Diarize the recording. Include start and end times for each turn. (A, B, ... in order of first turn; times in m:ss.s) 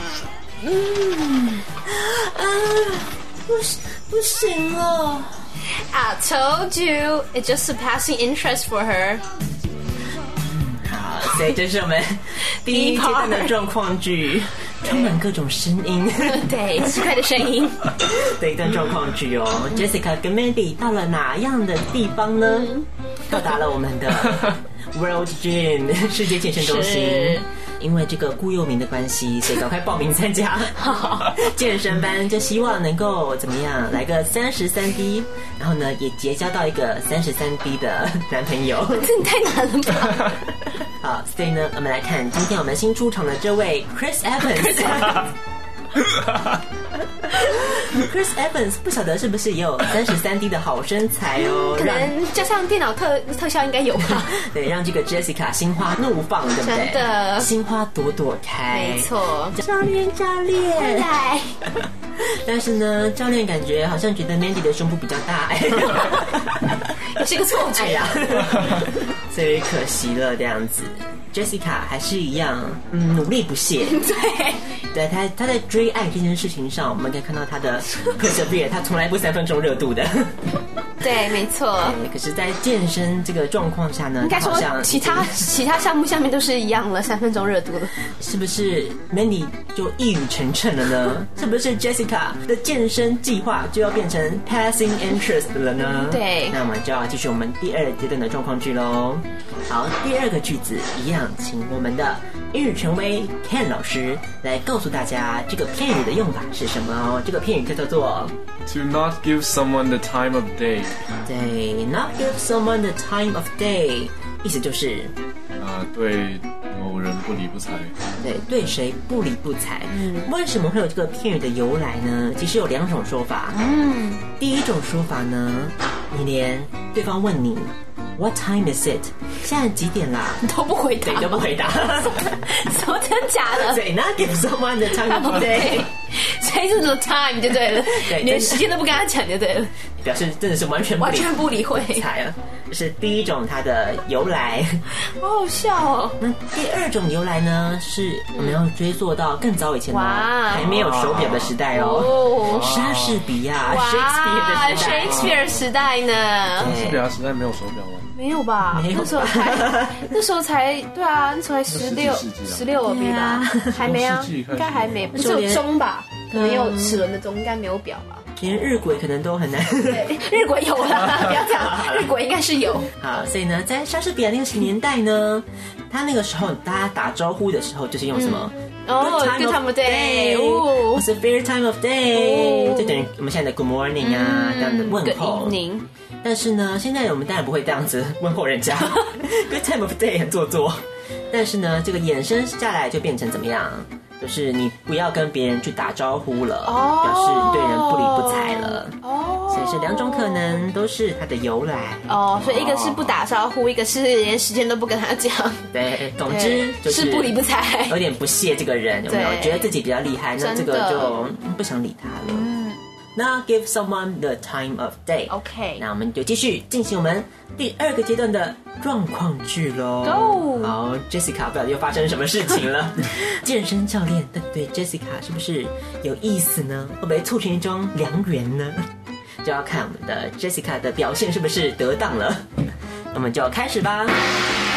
0:00.6-0:05.4 A
0:05.7-0:09.2 B
0:10.4-0:16.8 A
0:12.6-0:13.5 B
0:14.8-0:15.1 B
0:16.2-0:17.9 B
0:17.9-0:39.1 A
0:22.4-0:22.8 B
0:26.5-0:27.4 B
0:30.8-0:31.5 B
0:38.9-0:40.4 B
0:41.0-0:45.3 A
0:44.8-0:45.2 B
0:47.2-0:52.1 A
0:51.4-0:54.4 B
0:54.2-1:01.1 A
0:56.6-0:57.5 B
0:58.7-0:59.6 B
1:00.8-1:01.6 B
1:02.2-1:14.0 A
1:07.1-1:08.6 B
1:13.8-1:14.7 B
1:14.9-1:20.4 A
1:21.0-1:22.0 B
1:21.8-1:25.5 A
1:24.2-1:28.0 B
1:28.2-1:48.3 A
1:35.9-1:36.6 B
1:48.6-1:51.0 C
1:51.2-1:55.1 A
1:55.6-1:58.0 C
1:58.2-2:03.6 A
1:59.9-2:00.3 B
2:03.5-2:04.2 B
2:04.3-2:10.4 A
2:10.4-2:13.8 B
2:11.0-2:12.4 A
2:13.5-2:15.9 A
2:14.9-2:19.7 B
2:17.9-2:18.6 A
2:20.0-2:24.8 A
2:21.0-2:22.1 B
2:25.0-2:26.2 B
2:26.2-2:35.4 A
2:28.3-2:28.6 B
2:29.9-2:30.7 B
2:30.5-2:31.6 C
2:31.7-2:32.7 B
2:32.4-2:33.3 C
2:33.6-2:36.8 B
2:34.7-2:35.6 C
2:36.6-2:37.0 A
2:36.6-2:38.1 C
2:38.1-2:48.2 B
2:38.7-2:40.1 A
2:41.7-2:42.7 C
2:42.8-2:43.8 A
2:43.8-2:45.1 C
2:45.1-2:45.6 A
2:46.3-2:47.0 A
2:48.4-2:50.1 A
2:49.8-2:52.9 B
2:50.8-2:52.1 A
2:53.0-3:05.6 A
2:58.1-3:01.0 B
3:02.1-3:03.1 B
3:04.0-3:05.8 B
3:06.2-3:19.0 A
3:16.6-3:20.6 B
3:19.5-3:22.8 A
3:22.1-3:25.7 B
3:22.4-3:23.1 C
3:25.7-3:32.5 A
3:26.2-3:28.0 B
3:29.1-3:29.7 B
3:30.4-3:31.3 B
3:32.3-3:32.8 B
3:33.2-3:48.8 A
3:35.3-3:35.8 B
3:40.0-3:40.7 B
3:49.4-3:52.4 A
3:53.1-3:54.2 A